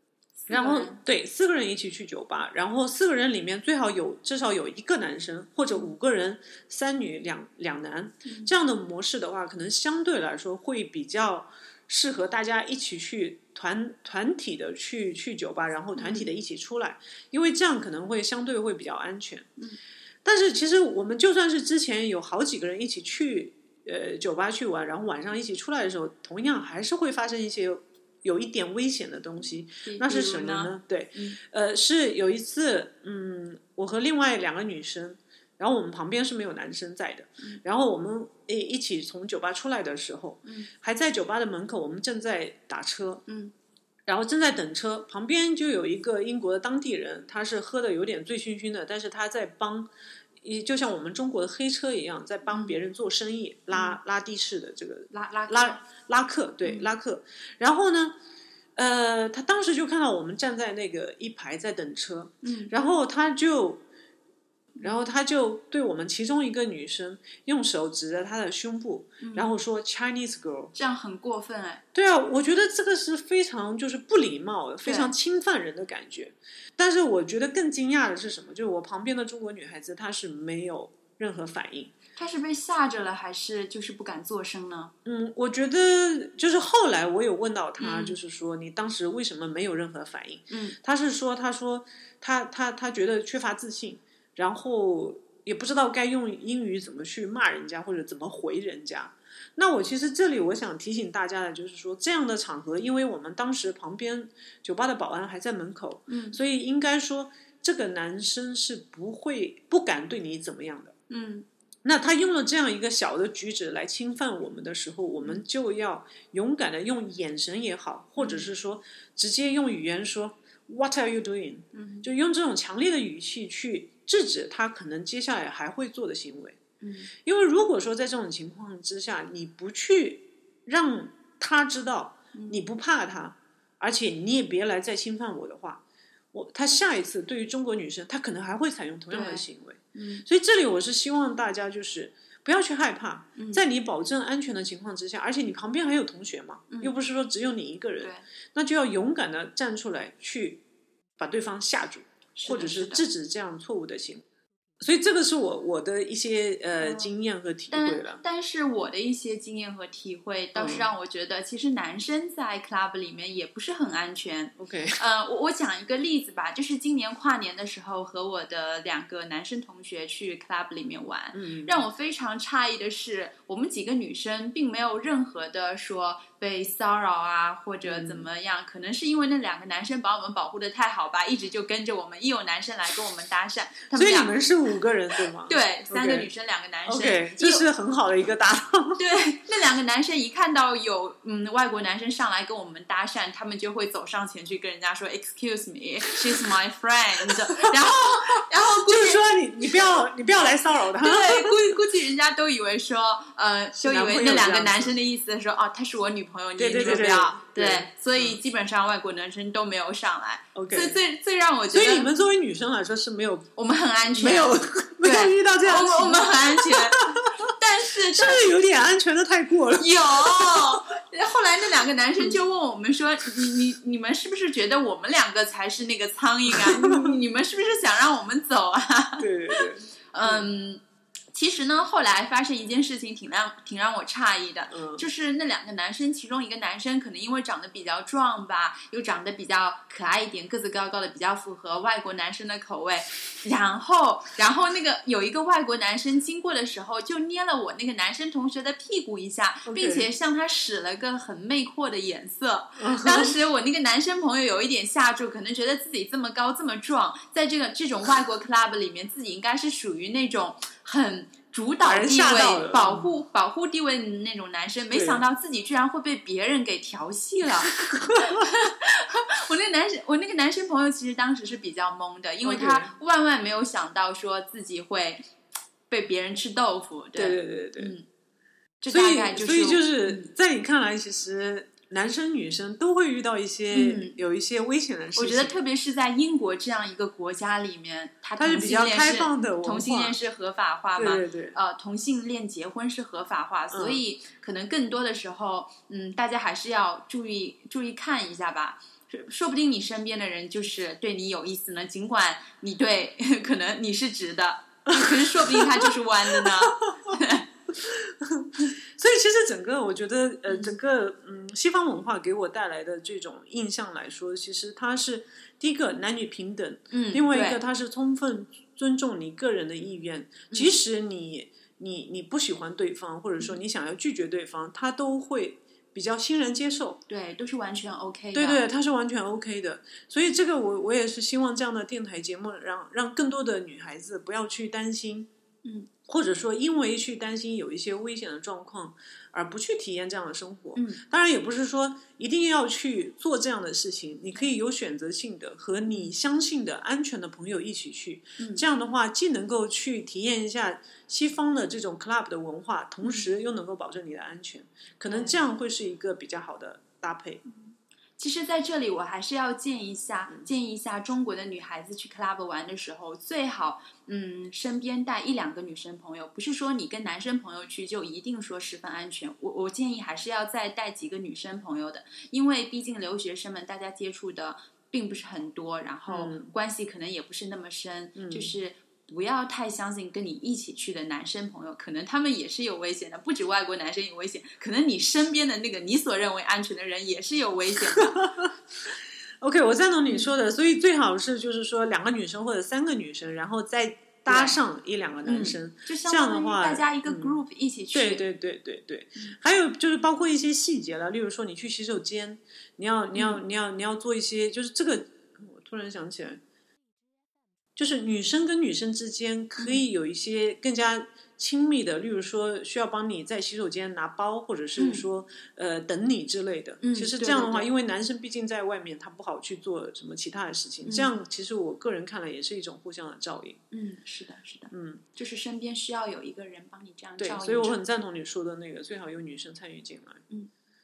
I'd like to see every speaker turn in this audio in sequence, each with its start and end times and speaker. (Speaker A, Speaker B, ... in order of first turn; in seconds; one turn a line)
Speaker A: 0.4-1.0
Speaker B: 0.5-19.5
Speaker A: 8.2-8.5
Speaker A: 15.9-16.3
Speaker B: 20.2-43.2
Speaker A: 29.8-31.4
Speaker A: 40.4-40.7
Speaker A: 43.3-43.5
Speaker B: 44.1-49.9
Speaker B: 50.4-58.1
Speaker A: 52.5-52.8
Speaker A: 53.7-54.0
Speaker A: 55.1-55.8
Speaker A: 56.6-56.9
Speaker B: 58.8-63.8
Speaker A: 62.4-62.7
Speaker B: 64.8-70.7
Speaker A: 69.2-69.5
Speaker A: 70.7-71.8
Speaker B: 71.9-81.9
Speaker A: 74.8-75.1
Speaker A: 82.2-84.9
Speaker B: 85.0-110.9
Speaker A: 87.8-88.2
Speaker A: 90.5-90.8
Speaker A: 106.1-106.4
Speaker A: 111.1-111.5
Speaker B: 111.8-126.6
Speaker A: 118.2-118.5
Speaker A: 121.7-122.1
Speaker A: 126.8-127.1
Speaker B: 127.2-135.8
Speaker A: 132.3-132.6
Speaker B: 136.3-150.6
Speaker A: 139.1-140.2
Speaker A: 143.4-143.6
Speaker A: 146.7-146.9
Speaker B: 151.2-154.2
Speaker A: 152.3-153.0
Speaker B: 154.8-158.2
Speaker A: 156.8-157.1
Speaker A: 157.7-184.4
Speaker B: 160.5-160.9
Speaker B: 164.6-165.0
Speaker B: 171.3-171.8
Speaker B: 177.8-178.3
Speaker B: 183.9-186.3
Speaker A: 185.4-187.7
Speaker B: 186.8-189.1
Speaker A: 189.0-199.9
Speaker B: 198.8-201.8
Speaker A: 201.0-212.1
Speaker B: 203.8-204.9
Speaker B: 206.6-208.4
Speaker B: 210.5-211.0
Speaker B: 211.7-213.5
Speaker A: 213.5-218.6
Speaker B: 214.1-217.2
Speaker B: 218.1-220.9
Speaker A: 219.8-275.3
Speaker B: 226.5-227.2
Speaker B: 229.2-230.5
Speaker B: 234.7-235.1
Speaker B: 249.7-250.1
Speaker B: 252.8-253.4
Speaker B: 261.8-263.1
Speaker B: 264.9-265.2
Speaker B: 272.4-272.9
Speaker A: 275.9-278.1
Speaker B: 277.1-277.9
Speaker A: 278.8-280.3
Speaker B: 278.9-285.6
Speaker A: 283.7-284.2
Speaker A: 285.1-307.4
Speaker B: 288.4-290.2
Speaker B: 290.9-291.6
Speaker B: 293.7-294.0
Speaker B: 304.9-306.7
Speaker B: 307.8-327.0
Speaker A: 310.5-310.7
Speaker A: 316.9-317.6
Speaker A: 327.1-328.6
Speaker B: 328.3-335.3
Speaker A: 335.6-335.9
Speaker B: 336.1-357.4
Speaker A: 340.7-341.0
Speaker A: 348.4-348.6
Speaker A: 355.1-355.4
Speaker A: 358.2-388.2
Speaker B: 376.1-376.5
Speaker B: 378.2-378.5
Speaker B: 388.0-388.4
Speaker B: 389.4-397.4
Speaker A: 390.1-390.3
Speaker A: 394.3-394.6
Speaker A: 395.2-398.2
Speaker B: 397.9-406.4
Speaker A: 403.1-403.4
Speaker B: 407.8-423.6
Speaker A: 414.8-415.1
Speaker A: 416.8-417.7
Speaker A: 420.8-421.1
Speaker A: 423.7-427.8
Speaker B: 424.7-425.0
Speaker B: 427.2-430.2